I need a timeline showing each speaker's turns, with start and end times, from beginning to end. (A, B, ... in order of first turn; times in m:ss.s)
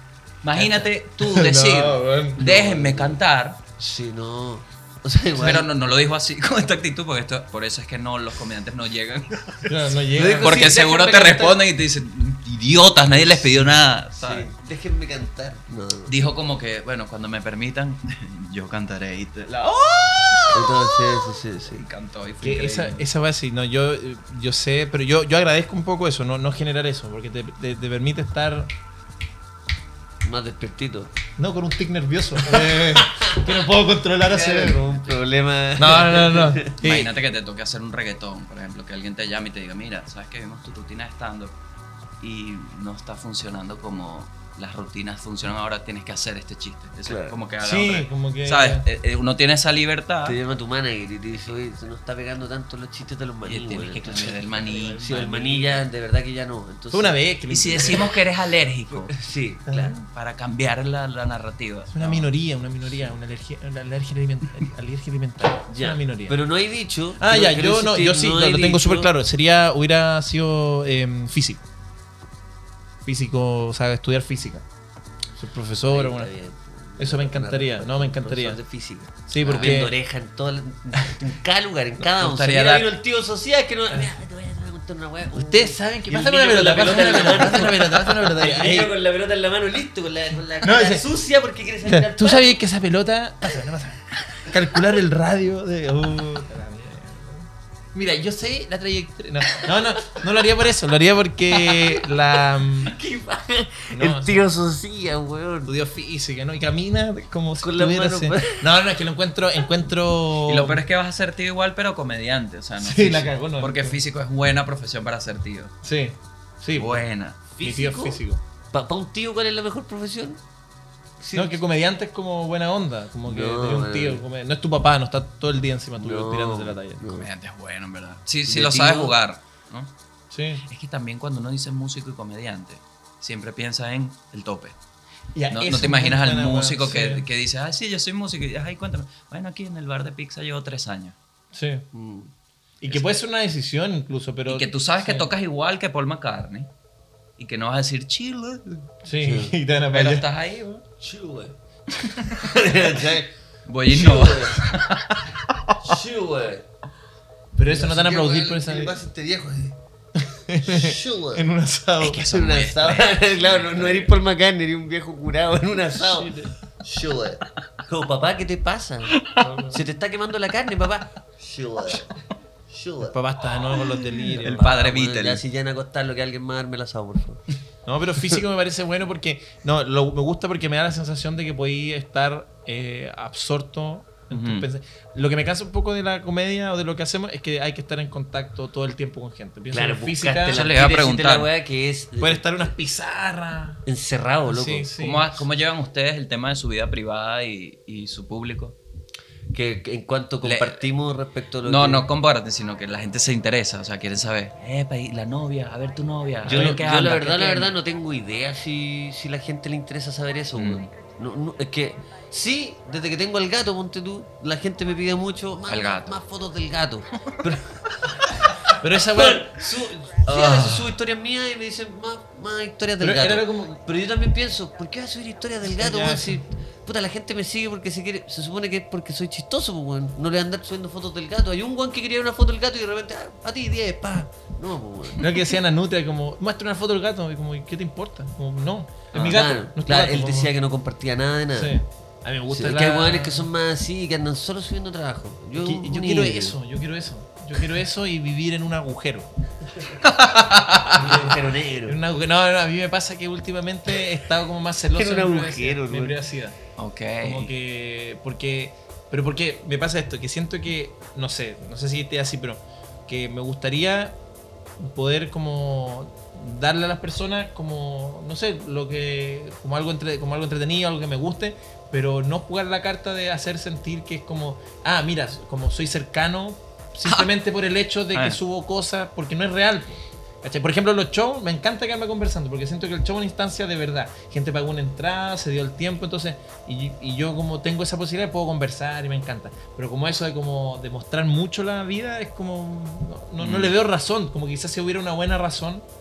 0:00.4-0:03.6 A
0:00.6-0:02.5 B
0:02.4-0:03.2 C
0:03.8-0:05.7 C
0:05.4-0:09.7 A
0:09.6-0:10.7 B
0:10.1-0:11.6 C
0:10.4-0:14.5 A
0:14.1-0:16.2 C
0:16.1-0:23.0 A
0:20.5-0:21.8 C
0:22.4-0:28.7 B
0:30.2-0:31.1 C
0:31.4-0:34.8 B
0:32.5-0:33.5 C
0:34.2-0:36.8 C
0:35.8-0:37.1 B
0:36.8-0:41.5 A
0:42.2-0:50.4 A
0:47.0-0:47.4 C
0:47.6-0:48.8 B
0:50.2-0:57.2 C
0:53.4-0:55.8 A
0:54.6-0:55.3 B
0:56.9-0:58.1 B
0:57.5-0:59.2 A
0:57.8-0:58.1 C
0:58.9-1:00.0 C
0:59.7-1:00.0 B
1:00.1-1:02.3 A
1:01.9-1:06.4 B
1:05.7-1:09.1 C
1:07.2-1:11.6 B
1:13.0-1:14.6 B
1:15.4-1:16.3 B
1:15.9-1:32.6 C
1:17.0-1:18.6 B
1:19.3-1:19.9 B
1:19.4-1:19.8 A
1:22.1-1:22.9 A
1:25.3-1:28.9 B
1:30.6-1:31.0 B
1:31.8-1:43.0 B
1:41.5-1:42.1 C
1:42.8-1:45.7 C
1:43.9-1:44.4 B
1:45.6-1:50.8 B
1:47.6-1:48.6 C
1:50.4-1:55.7 A
1:52.8-1:54.0 B
1:55.8-1:57.0 B
1:56.7-1:57.4 A
1:57.5-1:58.2 C
1:57.6-1:58.4 B
1:58.7-2:00.4 C
2:01.2-2:01.6 C
2:01.3-2:07.0 B
2:03.2-2:04.2 C
2:06.0-2:07.3 C
2:07.1-2:09.9 A
2:08.4-2:09.1 C
2:10.3-2:10.6 B
2:10.7-2:14.8 A
2:15.3-2:17.2 B
2:15.5-2:21.2 A
2:21.5-2:21.8 B
2:21.9-2:22.3 C
2:22.8-2:25.3 B
2:22.9-2:23.2 A
2:24.5-2:26.7 A
2:27.4-2:28.9 A
2:29.0-2:30.3 B
2:29.2-2:29.5 C
2:29.9-2:30.8 A
2:31.0-2:31.6 C
2:32.4-2:33.3 C
2:33.7-2:35.3 A
2:33.9-2:34.6 C
2:35.8-2:36.7 C
2:37.5-2:39.0 B
2:37.7-2:39.8 C
2:40.2-2:42.3 B
2:40.6-2:41.5 C
2:42.0-2:44.1 A
2:42.2-2:52.1 C
2:45.9-2:46.5 B
2:49.3-2:49.8 B
2:52.7-2:53.2 C
2:53.1-2:54.6 B
2:53.8-2:57.4 C
2:54.4-2:55.4 A
2:57.8-3:10.6 B
3:04.3-3:04.7 A
3:09.7-3:12.7 C
3:10.5-3:11.5 A
3:12.2-3:13.8 B
3:13.8-3:14.9 C
3:14.5-3:15.3 B
3:15.0-3:18.8 A
3:19.5-3:22.0 C
3:20.4-3:20.9 A
3:21.6-3:27.8 A
3:26.4-3:38.3 C
3:26.5-3:26.8 B
3:30.5-3:30.9 A
3:35.7-3:36.2 A
3:38.7-3:39.7 B
3:39.1-3:55.3 C
3:40.2-3:41.0 B
3:43.0-3:43.8 B
3:45.6-3:46.4 B
3:55.2-4:00.5 B
3:59.1-4:01.8 C
4:01.5-4:03.5 B
4:02.5-4:06.6 C
4:05.6-4:09.3 B
4:10.0-4:11.0 A
4:10.9-4:16.6 B
4:10.9-4:12.0 C
4:14.9-4:16.2 C
4:16.8-4:17.5 A
4:17.2-4:24.2 B
4:24.8-4:55.8 B
4:53.4-4:53.7 A